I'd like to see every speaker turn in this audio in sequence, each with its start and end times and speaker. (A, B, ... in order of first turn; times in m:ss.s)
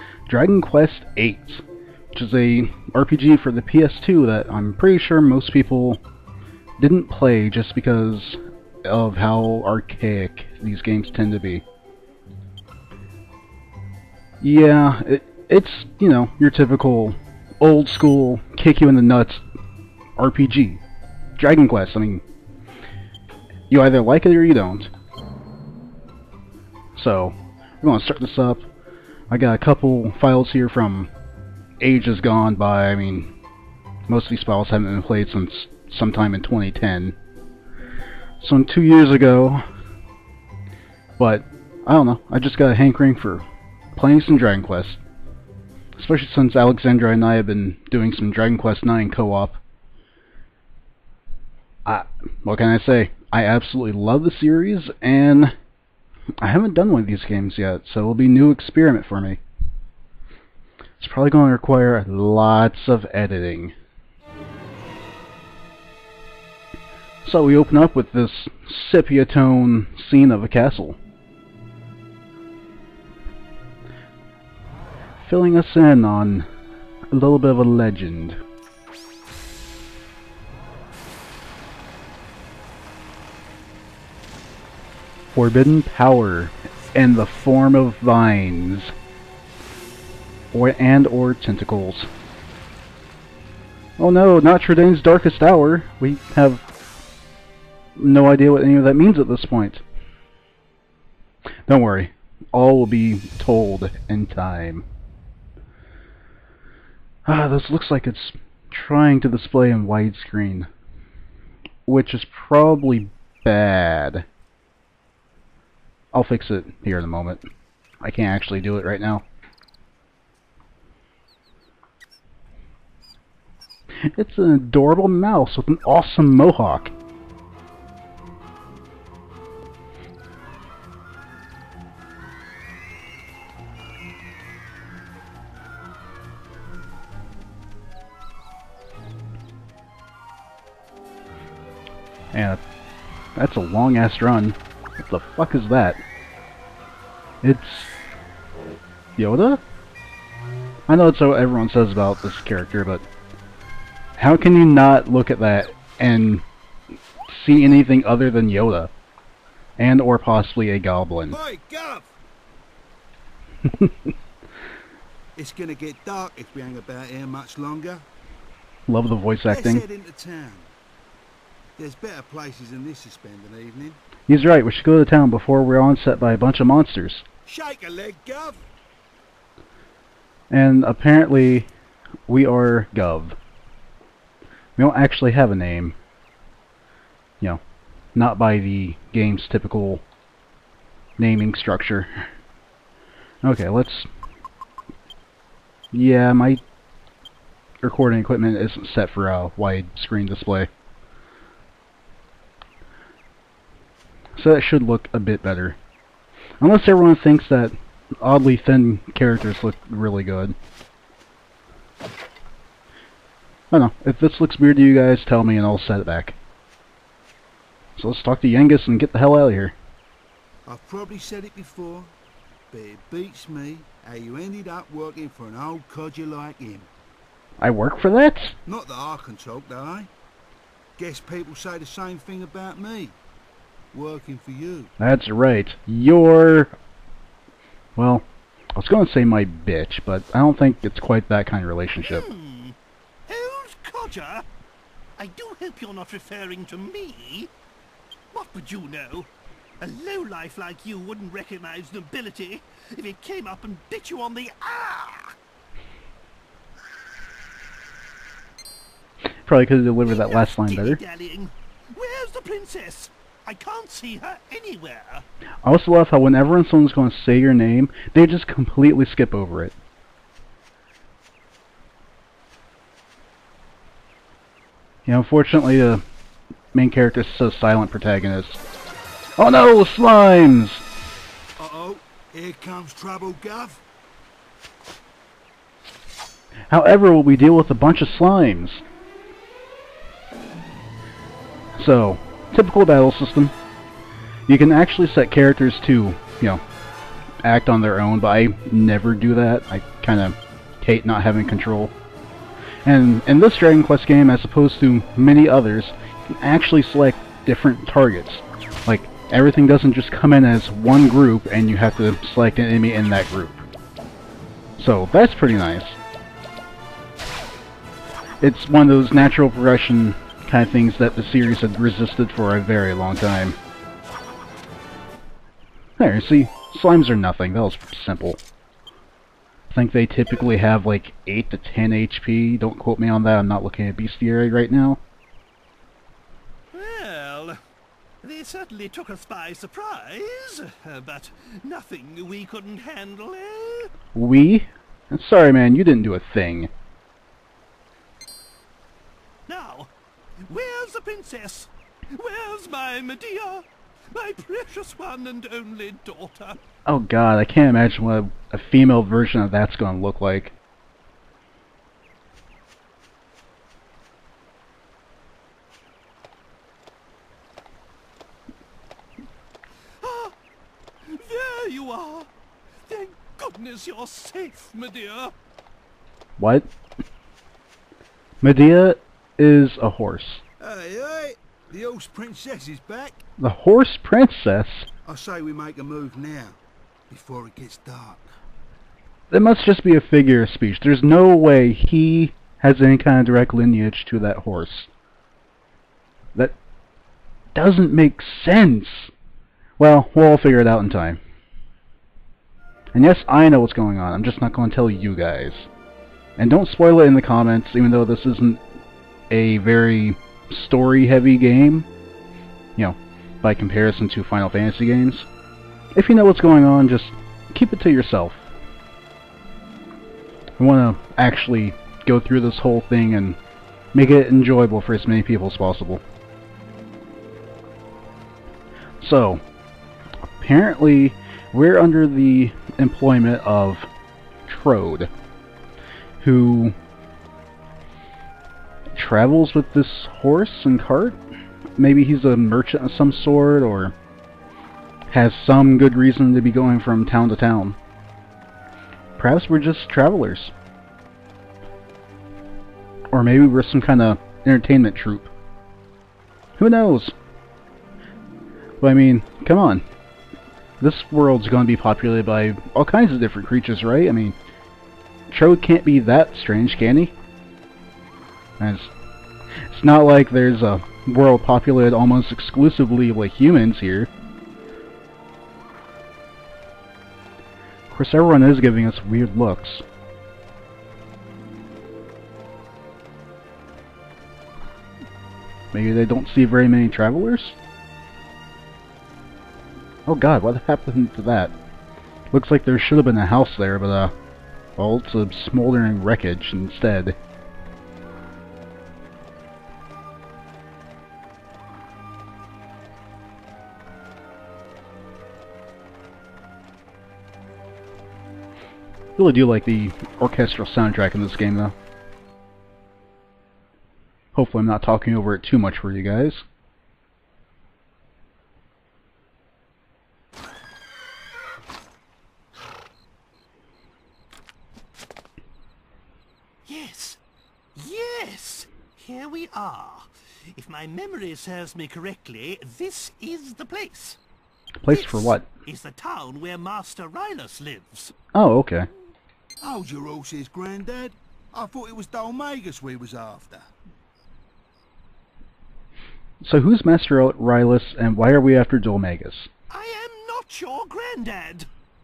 0:00.3-0:01.6 A
0:02.1-0:06.0 A
0:06.8-0:11.6 A
0:14.4-0:19.4 A
0:20.2-0:20.8 A
0:21.4-0:22.2 A
0:23.7-0:24.9 A
0:27.0-0:28.6 A
0:29.3-0:31.1 A
0:31.8-0:33.3 A
0:34.1-0:37.1 A
0:38.4-0:39.6 A
0:41.2-0:43.4 A
0:43.9-0:45.0 A
0:46.0-0:49.6 A
0:51.8-0:55.5 A
0:56.4-0:59.4 A
1:01.0-1:03.7 A
1:07.2-1:11.0 A
1:15.2-1:16.5 A
1:17.1-1:18.4 A
1:25.3-1:28.9 A
1:30.5-1:32.1 A
1:34.0-1:36.6 A
1:38.0-1:39.8 A
1:41.7-1:44.8 A
1:47.2-1:50.7 A
1:51.8-1:54.2 A
1:56.1-1:57.4 A
1:58.0-1:59.2 A
2:04.0-2:06.9 A
2:22.3-2:22.6 A
2:23.4-2:26.0 A
2:27.4-2:27.9 A
2:29.2-2:29.6 A
2:30.9-2:33.0 A
2:34.2-2:36.4 A
2:37.3-2:38.9 A
2:39.8-2:41.4 A
2:41.3-2:42.1 B
2:43.6-2:44.1 A
2:45.4-2:48.0 B
2:48.9-2:49.8 A
2:49.5-2:50.7 B
2:51.8-2:54.0 B
2:54.3-2:57.2 A
2:57.4-2:58.6 B
3:00.5-3:01.7 A
3:02.3-3:03.4 A
3:04.8-3:06.0 A
3:08.1-3:10.0 A
3:11.2-3:12.2 A
3:13.4-3:14.1 A
3:15.9-3:16.6 A
3:17.8-3:20.7 A
3:24.4-3:25.8 A
3:26.6-3:30.5 A
3:33.7-3:36.4 A
3:38.0-3:39.7 A
3:40.7-3:42.1 B
3:42.7-3:46.9 B
3:47.6-3:48.5 A
3:48.6-3:50.1 B
3:51.0-3:53.2 B
3:53.9-3:54.9 B
3:55.0-3:56.8 A
3:58.0-4:02.3 A
4:02.0-4:04.5 C
4:05.2-4:07.5 C
4:08.3-4:15.4 C
4:19.2-4:21.0 A
4:20.0-4:25.2 C
4:25.6-4:29.7 A
4:35.0-4:36.0 A
4:36.7-4:38.6 A
4:39.4-4:40.8 A
4:41.6-4:43.8 B
4:46.7-4:48.8 A
4:51.8-4:53.5 A
4:54.5-4:56.6 A
4:57.4-5:01.9 A
5:02.8-5:13.6 A
5:14.8-5:16.0 A
5:18.4-5:23.6 A
5:26.0-5:28.4 A
5:29.7-5:35.0 A
5:36.7-5:37.6 C
5:38.2-5:43.9 C
5:44.1-5:46.7 A
5:49.5-5:56.6 C
5:56.8-6:00.5 A
6:10.0-6:10.4 C
6:11.0-6:12.3 C
6:12.8-6:15.3 C
6:16.4-6:16.7 A
6:18.4-6:20.4 A
6:20.6-6:23.2 B
6:23.4-6:24.9 A
6:25.0-6:28.2 B
6:29.3-6:34.9 A
6:37.5-6:39.1 A
6:39.8-6:41.2 A
6:42.9-6:45.7 A
6:46.4-6:48.6 A
6:49.3-6:51.9 A
6:52.8-6:55.3 A
6:55.9-6:58.4 A
7:00.6-7:03.4 A
7:03.9-7:06.0 A
7:09.0-7:09.4 A
7:10.2-7:13.9 A
7:14.5-7:15.1 A
7:16.2-7:16.7 A
7:18.9-7:21.2 A
7:21.8-7:23.9 A
7:25.1-7:27.8 A
7:29.2-7:30.5 A
7:33.1-7:35.3 A
7:36.6-7:37.1 A
7:38.8-7:39.8 A
7:40.8-7:44.4 A
7:45.3-7:47.1 A
7:48.6-7:48.9 A
7:49.7-7:54.1 A
7:57.9-7:59.8 A
8:05.7-8:07.6 A
8:10.1-8:11.5 A
8:12.3-8:14.1 A
8:14.8-8:17.1 A
8:29.2-8:31.7 A
8:34.3-8:36.4 A
8:46.6-8:47.2 C
8:47.8-8:54.2 C
8:54.8-8:55.4 A
8:54.9-8:58.1 C
8:58.3-8:58.9 A
8:59.6-9:03.7 B
9:06.4-9:09.5 A
9:09.7-9:11.7 C